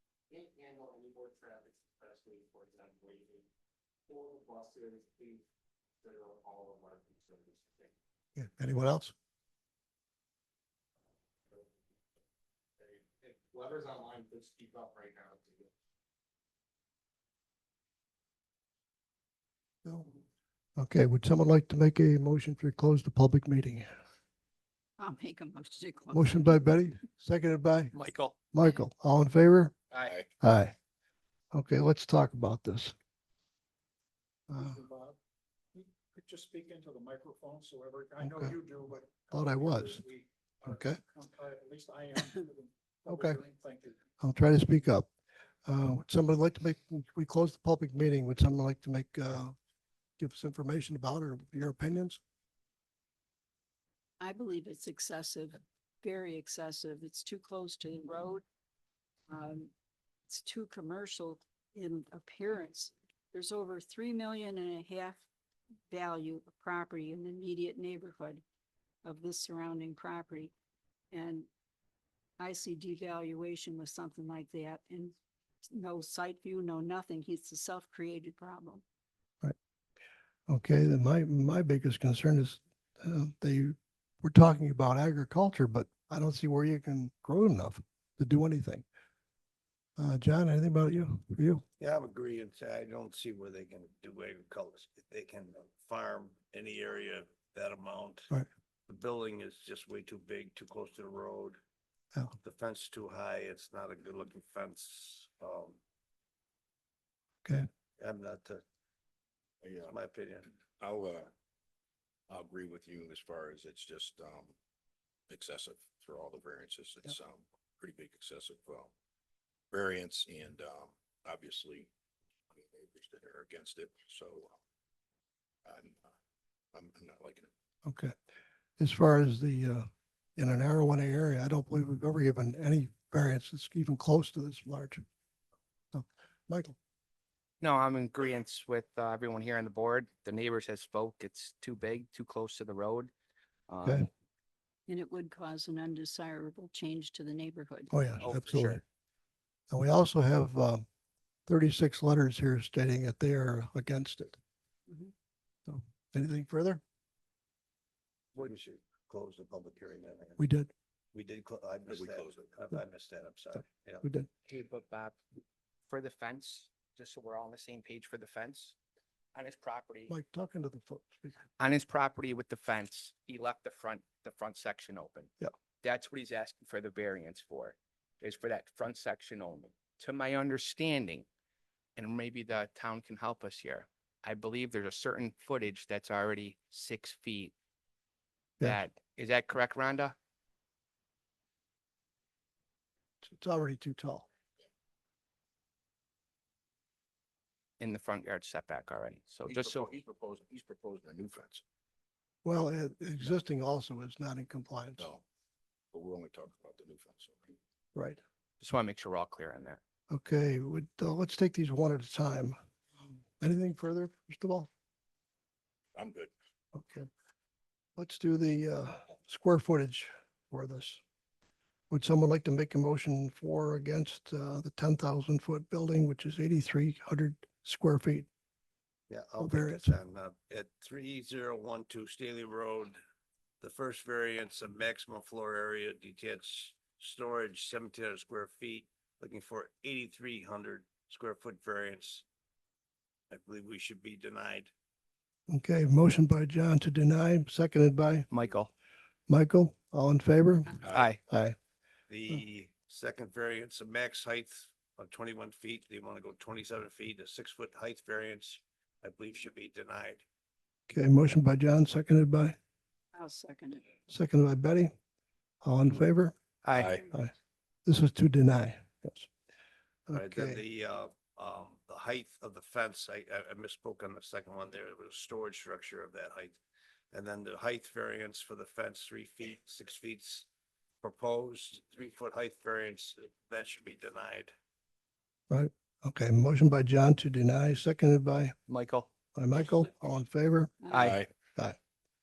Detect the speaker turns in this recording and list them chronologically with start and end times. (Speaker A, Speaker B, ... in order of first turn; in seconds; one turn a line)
Speaker A: 0.3-3.5
Speaker A: 4.1-5.4
Speaker A: 6.0-7.9
Speaker B: 8.3-9.1
Speaker A: 12.8-15.7
Speaker B: 19.8-20.2
Speaker B: 20.8-23.9
Speaker C: 25.0-26.6
Speaker B: 26.1-27.9
Speaker D: 27.9-28.4
Speaker B: 28.5-29.7
Speaker D: 29.9-30.2
Speaker B: 30.4-30.8
Speaker B: 31.5-32.9
Speaker B: 34.5-34.8
Speaker E: 34.5-35.2
Speaker E: 35.8-44.0
Speaker B: 38.2-38.6
Speaker B: 39.3-40.0
Speaker B: 40.6-41.0
Speaker B: 43.1-43.4
Speaker B: 44.2-45.1
Speaker B: 45.6-49.5
Speaker B: 50.2-52.2
Speaker C: 54.2-58.4
Speaker C: 59.3-59.7
Speaker C: 60.3-65.2
Speaker C: 65.9-68.4
Speaker C: 69.0-70.5
Speaker C: 71.1-71.5
Speaker C: 72.4-75.2
Speaker C: 75.7-78.8
Speaker B: 80.5-88.8
Speaker B: 90.0-91.6
Speaker F: 91.8-98.3
Speaker F: 98.9-101.6
Speaker F: 102.4-105.8
Speaker F: 108.0-108.6
Speaker G: 109.6-109.9
Speaker F: 109.8-110.5
Speaker G: 110.7-111.3
Speaker G: 112.3-114.5
Speaker G: 115.3-118.9
Speaker G: 119.7-121.9
Speaker G: 122.5-124.6
Speaker G: 125.7-126.0
Speaker G: 126.7-127.5
Speaker B: 127.8-128.1
Speaker B: 128.8-135.0
Speaker B: 135.9-136.8
Speaker D: 137.6-143.1
Speaker D: 143.7-144.1
Speaker C: 144.9-148.0
Speaker B: 147.9-148.8
Speaker D: 148.2-148.8
Speaker B: 149.7-150.8
Speaker B: 151.5-154.4
Speaker B: 155.7-156.8
Speaker F: 158.3-160.4
Speaker B: 160.4-160.7
Speaker F: 161.1-164.1
Speaker G: 161.9-162.5
Speaker B: 164.0-164.3
Speaker D: 164.5-165.2
Speaker D: 165.9-168.8
Speaker D: 169.3-170.1
Speaker B: 170.1-171.4
Speaker D: 171.6-181.3
Speaker D: 182.0-187.5
Speaker D: 188.6-190.2
Speaker B: 193.2-194.3
Speaker D: 197.8-199.9
Speaker G: 199.5-201.6
Speaker B: 202.4-205.1
Speaker G: 205.9-207.6
Speaker B: 207.9-208.2
Speaker D: 208.6-209.8
Speaker B: 210.1-212.6
Speaker B: 213.4-214.7
Speaker G: 215.9-216.3
Speaker B: 216.7-217.1
Speaker B: 218.0-221.0
Speaker B: 221.9-228.3
Speaker F: 229.1-233.0
Speaker B: 229.4-230.0
Speaker F: 233.6-242.2
Speaker F: 243.3-244.7
Speaker B: 245.5-248.3
Speaker D: 248.3-248.7
Speaker B: 249.3-251.6
Speaker D: 250.8-251.2
Speaker F: 252.1-260.2
Speaker B: 260.9-262.6
Speaker C: 263.1-263.9
Speaker B: 264.1-264.9
Speaker B: 265.6-266.4
Speaker D: 266.6-267.0
Speaker G: 266.8-267.1
Speaker B: 267.1-267.3
Speaker B: 267.9-269.3
Speaker B: 270.1-270.6
Speaker F: 270.1-276.6
Speaker F: 277.1-280.5
Speaker F: 281.0-284.5
Speaker B: 285.5-288.5
Speaker D: 288.7-289.1
Speaker B: 289.4-290.9
Speaker D: 290.9-291.2
Speaker G: 290.9-291.3